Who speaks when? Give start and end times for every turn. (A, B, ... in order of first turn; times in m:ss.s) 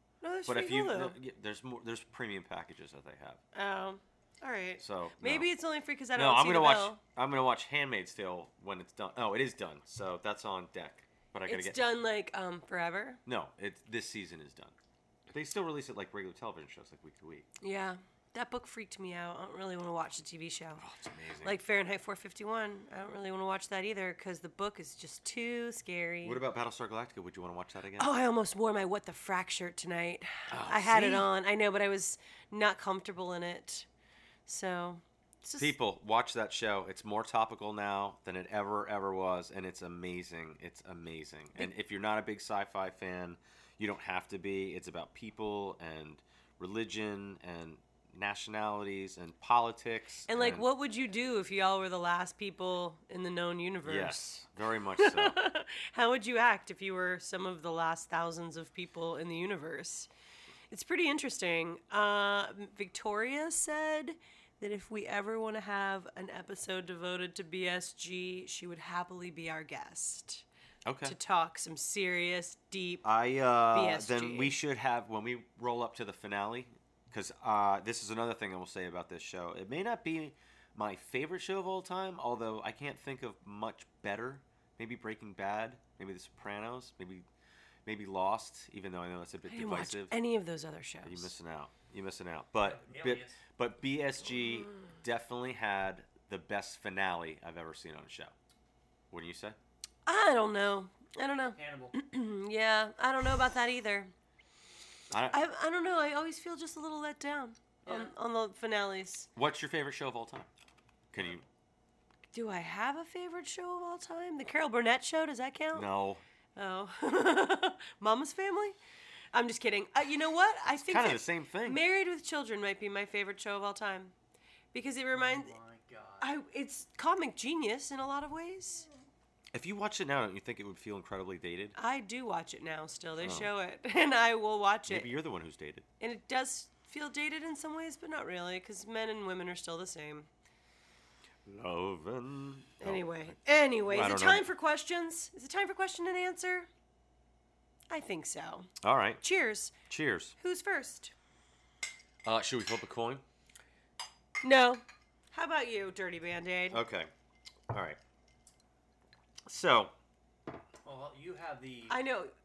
0:00.2-0:01.2 A
0:00.4-0:03.4 B
0:03.5-0:07.0 A
0:04.8-0:05.5 B
0:06.1-0:11.8 B
0:11.5-0:13.2 A
0:13.2-0:14.7 B
0:15.3-0:17.5 B
0:17.6-0:20.8 A
0:20.8-0:21.6 B
0:21.4-0:26.4 A
0:26.2-0:28.1 B
0:28.0-0:33.9 A
0:30.5-0:31.3 B
0:34.4-0:35.7 A
0:35.6-0:50.6 B
0:50.3-0:54.3 A
0:53.8-0:55.4 B
0:55.0-1:00.1 A
1:00.7-1:10.4 A
1:10.8-1:11.2 B
1:11.0-1:13.0 A
1:13.0-1:27.2 B
1:13.7-1:14.6 A
1:27.8-1:30.1 B
1:29.4-1:31.3 A
1:31.0-1:38.3 B
1:32.6-1:33.4 C
1:39.1-1:39.6 B
1:40.0-1:44.1 A
1:41.6-1:41.9 C
1:45.1-1:45.4 B
1:45.3-1:49.3 A
1:49.4-1:50.5 B
1:51.1-1:51.4 B
1:52.3-1:55.9 A
1:55.7-1:56.2 B
1:56.6-1:58.8 A
1:59.3-2:04.1 A
2:00.7-2:01.8 B
2:04.7-2:05.5 A
2:05.1-2:06.3 C
2:06.2-2:08.9 A
2:09.5-2:11.8 B
2:11.8-2:15.1 A
2:13.2-2:13.5 B
2:14.9-2:15.8 B
2:16.0-2:20.3 A
2:21.4-2:23.3 B
2:22.8-2:26.7 A
2:23.8-2:24.5 B
2:27.9-2:28.7 A
2:28.8-2:29.2 B
2:29.2-2:29.7 A
2:29.8-2:30.3 B
2:30.4-2:31.1 A
2:32.2-2:33.2 B
2:34.4-2:36.8 A
2:36.7-2:37.1 B
2:37.7-2:38.0 B
2:39.4-2:39.9 B
2:40.8-2:42.0 C
2:41.9-2:42.3 A